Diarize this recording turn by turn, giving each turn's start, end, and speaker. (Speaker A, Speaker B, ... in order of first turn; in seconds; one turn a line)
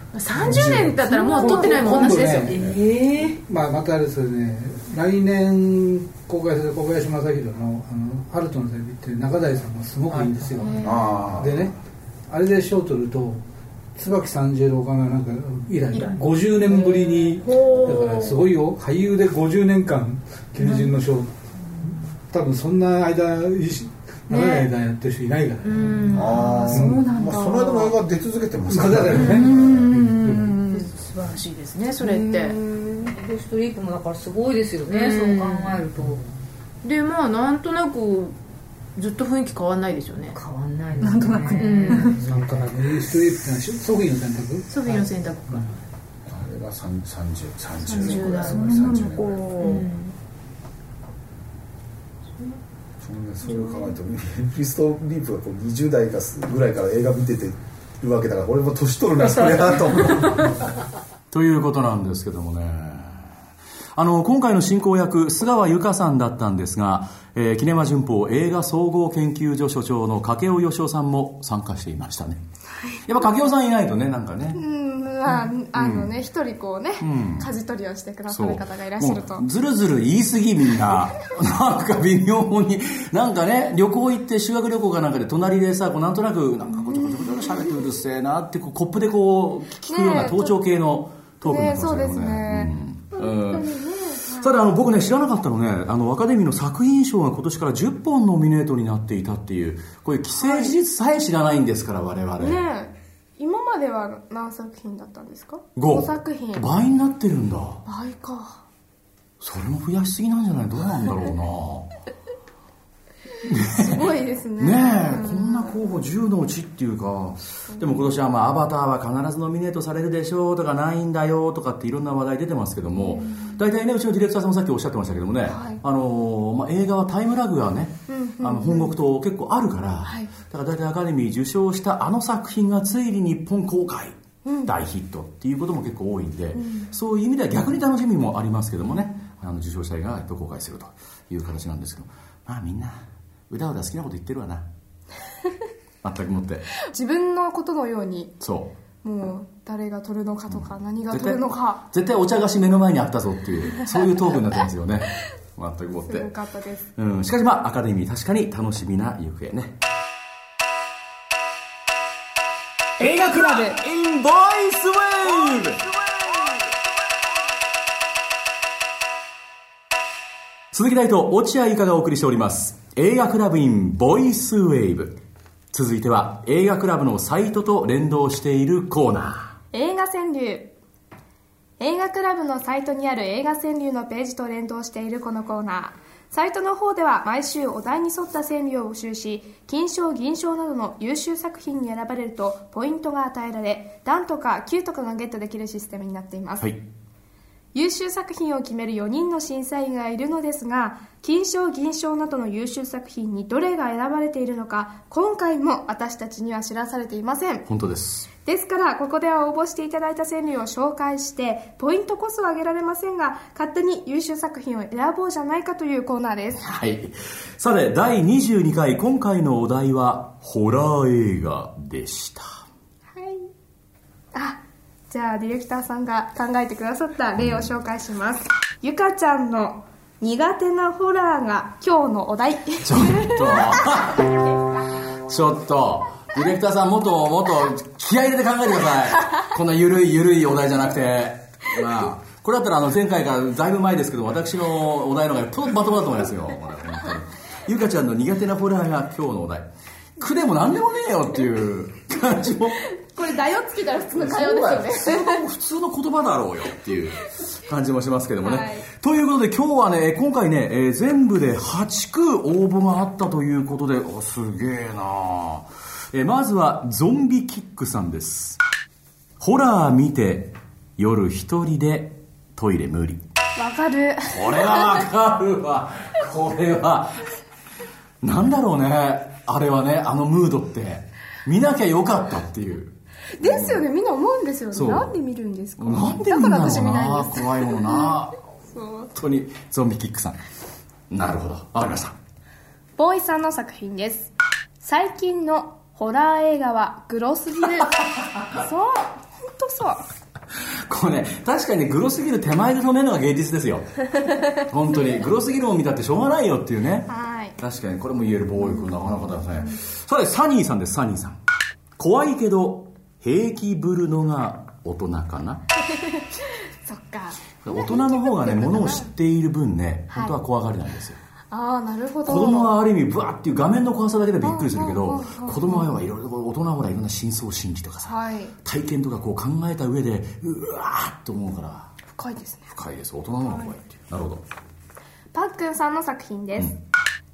Speaker A: 0.1-2.7
Speaker B: 0.4-2.7
Speaker C: 0.4-1.0
Speaker D: 1.1-3.4
Speaker B: 3.4-11.8
Speaker E: 10.1-10.7
Speaker A: 10.6-11.3
Speaker C: 10.8-11.7
Speaker B: 12.3-13.4
Speaker B: 13.9-21.3
Speaker A: 15.9-18.4
Speaker A: 20.6-21.0
Speaker B: 21.9-27.0
Speaker A: 24.3-24.7
Speaker A: 25.6-27.0
Speaker C: 26.1-29.9
Speaker D: 26.3-27.9
Speaker B: 28.7-30.6
Speaker A: 29.1-32.6
Speaker D: 29.4-30.9
Speaker D: 32.0-36.2
Speaker A: 34.9-35.9
Speaker E: 36.0-36.3
Speaker A: 36.8-38.4
Speaker A: 39.0-40.4
Speaker D: 40.3-42.2
Speaker A: 41.0-42.2
Speaker E: 41.6-43.1
Speaker B: 42.7-45.7
Speaker A: 44.7-45.8
Speaker C: 46.3-49.5
Speaker A: 47.9-50.1
Speaker D: 47.9-49.9
Speaker C: 53.0-60.5
Speaker A: 53.5-53.9
Speaker F: 61.3-63.2
Speaker F: 64.0-72.4
Speaker F: 73.1-74.6
Speaker G: 74.5-79.5
Speaker F: 75.3-76.1
Speaker F: 77.0-77.5
Speaker F: 78.3-93.7
Speaker G: 86.8-87.8
Speaker G: 89.9-90.6
Speaker G: 91.4-94.6
Speaker F: 94.4-102.6
Speaker G: 100.4-100.8
Speaker G: 102.4-106.7
Speaker F: 105.8-107.8
Speaker G: 107.9-108.6
Speaker F: 109.4-111.9
Speaker F: 113.5-144.7
Speaker G: 113.7-115.7
Speaker G: 117.7-118.1
Speaker G: 123.0-123.6
Speaker G: 125.5-125.8
Speaker G: 128.1-128.9
Speaker G: 130.0-130.3
Speaker G: 134.4-134.7
Speaker G: 136.5-136.9
Speaker F: 146.0-146.8
Speaker G: 146.9-148.3
Speaker F: 148.4-148.7
Speaker G: 149.0-151.8
Speaker F: 150.5-156.3
Speaker G: 156.1-156.9
Speaker F: 157.0-159.8
Speaker G: 163.0-163.8
Speaker F: 163.0-166.6
Speaker G: 165.3-165.6
Speaker G: 166.3-166.6
Speaker F: 170.7-175.2
Speaker F: 175.7-179.5
Speaker G: 179.7-180.7
Speaker G: 181.8-196.7
Speaker G: 197.7-207.7
Speaker F: 207.7-208.3
Speaker G: 208.4-216.7
Speaker F: 216.6-222.6
Speaker G: 223.1-223.5
Speaker G: 224.3-234.2
Speaker F: 227.4-227.7
Speaker F: 232.8-234.2
Speaker F: 235.3-249.7
Speaker F: 250.2-252.8
Speaker G: 253.0-255.4
Speaker F: 254.2-268.6
Speaker G: 258.4-258.9
Speaker F: 269.4-273.2
Speaker G: 273.6-275.0
Speaker F: 274.3-277.2
Speaker F: 278.2-283.9
Speaker G: 283.4-288.2
Speaker F: 284.7-285.1
Speaker F: 285.8-288.4
Speaker G: 288.7-289.1
Speaker F: 289.1-290.4
Speaker F: 291.1-292.2
Speaker G: 293.0-300.0
Speaker F: 300.9-304.0
Speaker F: 304.6-311.4
Speaker G: 307.1-307.6
Speaker G: 308.6-309.8
Speaker F: 312.0-315.6
Speaker G: 316.0-319.1
Speaker F: 317.6-321.2
Speaker G: 321.5-322.7
Speaker F: 322.3-332.0
Speaker G: 324.4-325.9
Speaker G: 328.1-328.5
Speaker G: 332.1-332.7
Speaker F: 332.7-334.4
Speaker G: 333.4-333.7
Speaker G: 335.3-336.8